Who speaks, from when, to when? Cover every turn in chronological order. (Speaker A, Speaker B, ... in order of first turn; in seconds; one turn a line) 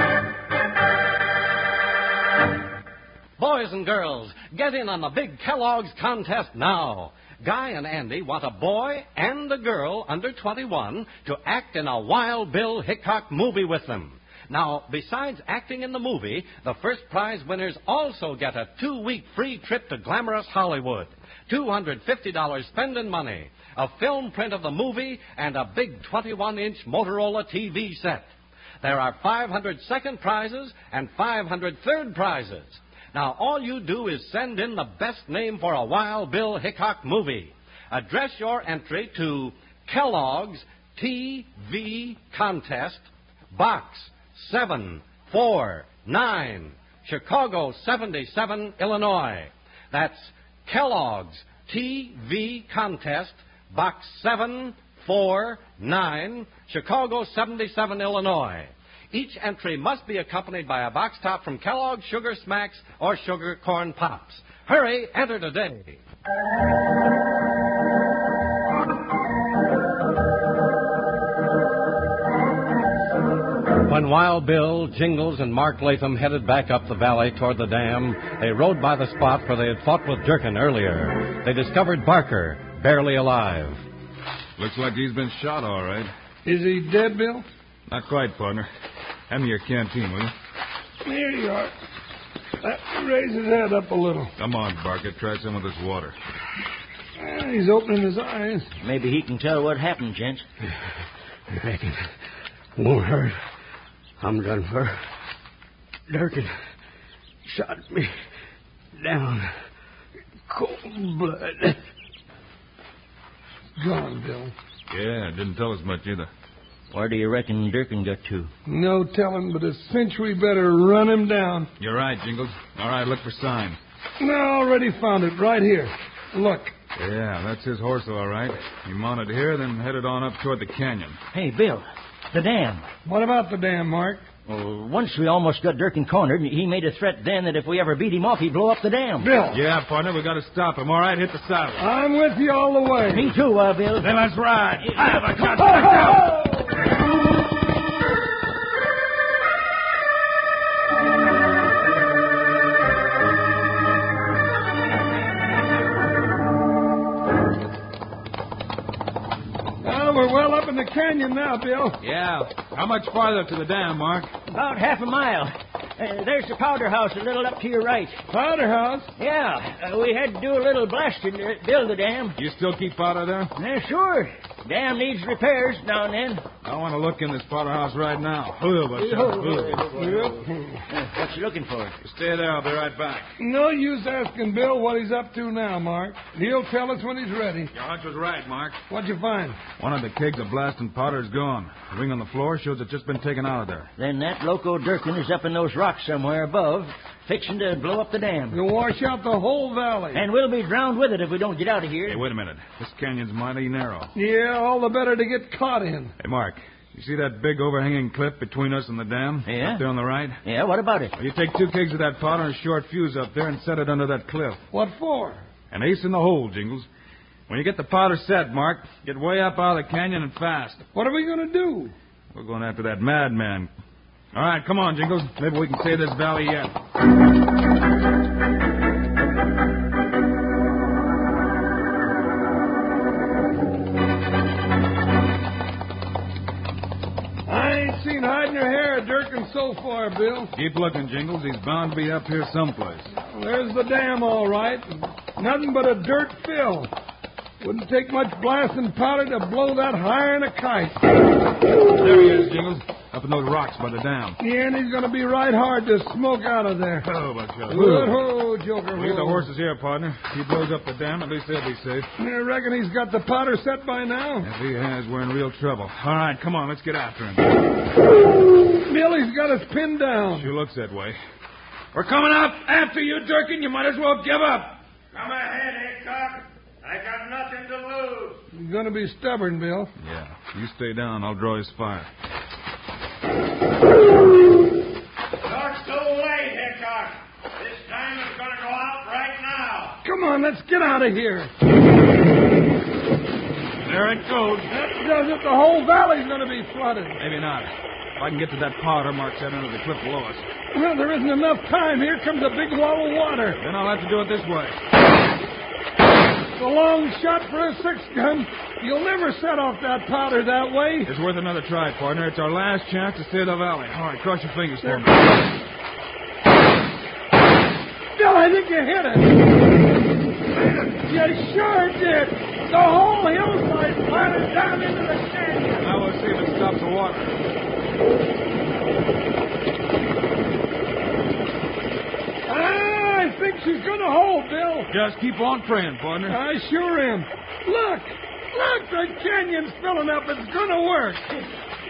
Speaker A: 3.4-28.3
Speaker A: 28.8-66.0
Speaker A: 73.8-83.8
Speaker B: 84.6-86.1
Speaker C: 86.5-87.5
Speaker B: 87.9-88.7
Speaker B: 89.3-90.3
Speaker C: 91.0-91.7
Speaker C: 92.6-94.3
Speaker B: 94.4-96.2
Speaker C: 97.2-98.7
Speaker D: 98.8-100.5
Speaker E: 101.5-102.1
Speaker E: 102.8-103.4
Speaker E: 104.2-105.0
Speaker E: 106.1-106.5
Speaker E: 107.5-108.1
Speaker E: 109.0-109.6
Speaker E: 110.5-111.8
Speaker C: 113.8-114.5
Speaker B: 114.9-116.3
Speaker D: 116.9-118.5
Speaker C: 118.7-121.7
Speaker B: 121.8-123.8
Speaker C: 124.2-126.7
Speaker B: 127.0-131.2
Speaker D: 131.3-132.8
Speaker C: 133.0-134.2
Speaker D: 134.5-139.3
Speaker C: 139.2-139.6
Speaker B: 139.5-141.9
Speaker C: 141.8-143.4
Speaker D: 143.1-144.1
Speaker B: 144.0-146.3
Speaker D: 145.0-145.6
Speaker C: 159.8-162.0
Speaker B: 162.0-164.3
Speaker D: 164.5-168.2
Speaker C: 168.3-169.1
Speaker D: 169.2-172.4
Speaker B: 172.4-173.5
Speaker D: 173.6-176.4
Speaker B: 176.6-180.2
Speaker D: 179.2-179.8
Speaker C: 179.9-180.8
Speaker D: 180.9-182.0
Speaker B: 182.0-183.3
Speaker C: 183.4-187.7
Speaker B: 187.7-188.8
Speaker C: 188.9-189.6
Speaker B: 189.8-193.9
Speaker D: 194.0-198.6
Speaker C: 198.5-200.2
Speaker D: 200.1-202.2
Speaker B: 202.1-204.1
Speaker C: 204.2-206.2
Speaker B: 206.2-210.4
Speaker D: 209.5-209.8
Speaker D: 210.4-211.1
Speaker B: 211.2-214.6
Speaker C: 214.7-215.4
Speaker B: 215.7-216.9
Speaker B: 217.5-220.8
Speaker C: 220.9-221.9
Speaker B: 222.3-223.7
Speaker B: 224.3-226.8
Speaker C: 237.5-240.5
Speaker B: 240.5-243.1
Speaker C: 243.1-246.9
Speaker C: 247.6-251.0
Speaker B: 251.9-254.4
Speaker C: 254.4-257.1
Speaker B: 257.0-258.3
Speaker C: 257.7-259.5
Speaker B: 258.9-262.1
Speaker C: 262.2-264.5
Speaker B: 264.4-267.6
Speaker C: 268.6-270.5
Speaker B: 270.3-271.2
Speaker B: 271.9-274.8
Speaker F: 275.1-278.4
Speaker C: 278.5-279.9
Speaker B: 280.0-282.1
Speaker F: 285.4-290.0
Speaker C: 290.0-291.5
Speaker B: 293.8-294.7
Speaker C: 294.7-297.2
Speaker B: 297.2-300.5
Speaker C: 300.7-303.6
Speaker B: 303.6-304.8
Speaker C: 306.6-311.1
Speaker B: 311.1-315.4
Speaker C: 318.1-319.4
Speaker C: 320.5-325.9
Speaker B: 325.8-327.4
Speaker C: 332.5-334.9
Speaker B: 334.9-336.4
Speaker C: 336.3-341.5